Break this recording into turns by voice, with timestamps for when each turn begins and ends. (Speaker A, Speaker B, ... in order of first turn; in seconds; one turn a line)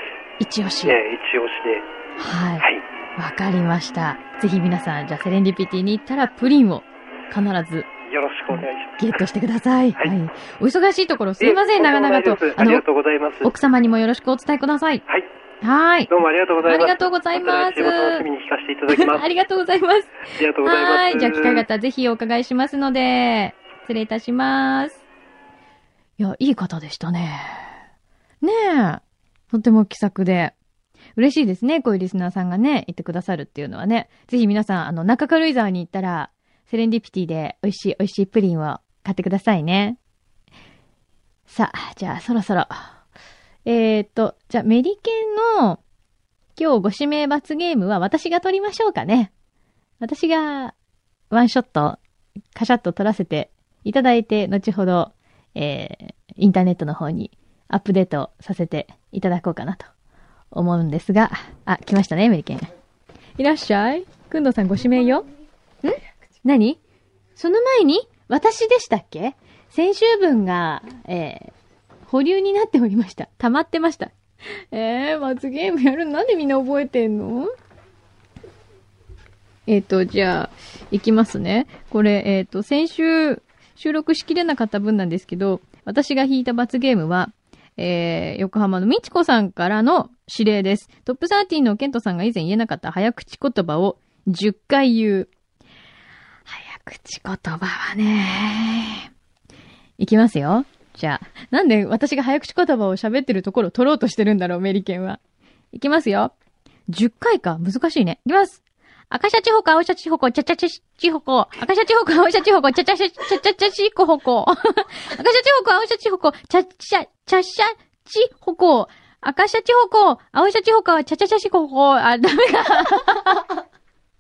Speaker A: 0.4-1.0
Speaker B: 0.8-1.9
Speaker A: 2.2-7.9
Speaker B: 8.1-9.1
Speaker A: 8.5-12.9
Speaker B: 11.4-13.5
Speaker A: 13.4-15.0
Speaker A: 15.6-18.3
Speaker B: 16.1-19.3
Speaker A: 18.9-25.0
Speaker B: 20.3-21.7
Speaker A: 26.2-27.7
Speaker A: 28.4-30.6
Speaker A: 31.2-40.0
Speaker A: 41.5-43.0
Speaker A: 43.6-45.8
Speaker A: 46.6-49.3
Speaker A: 50.0-50.7
Speaker A: 51.3-52.0
Speaker A: 52.5-59.9
Speaker A: 60.5-62.7
Speaker A: 63.4-65.3
Speaker A: 65.8-66.8
Speaker A: 67.4-71.5
Speaker A: 72.1-74.1
Speaker A: 74.7-77.5
Speaker A: 79.7-95.3
Speaker A: 96.5-99.1
Speaker A: 100.0-105.2
Speaker A: 105.7-106.3
Speaker A: 106.9-123.5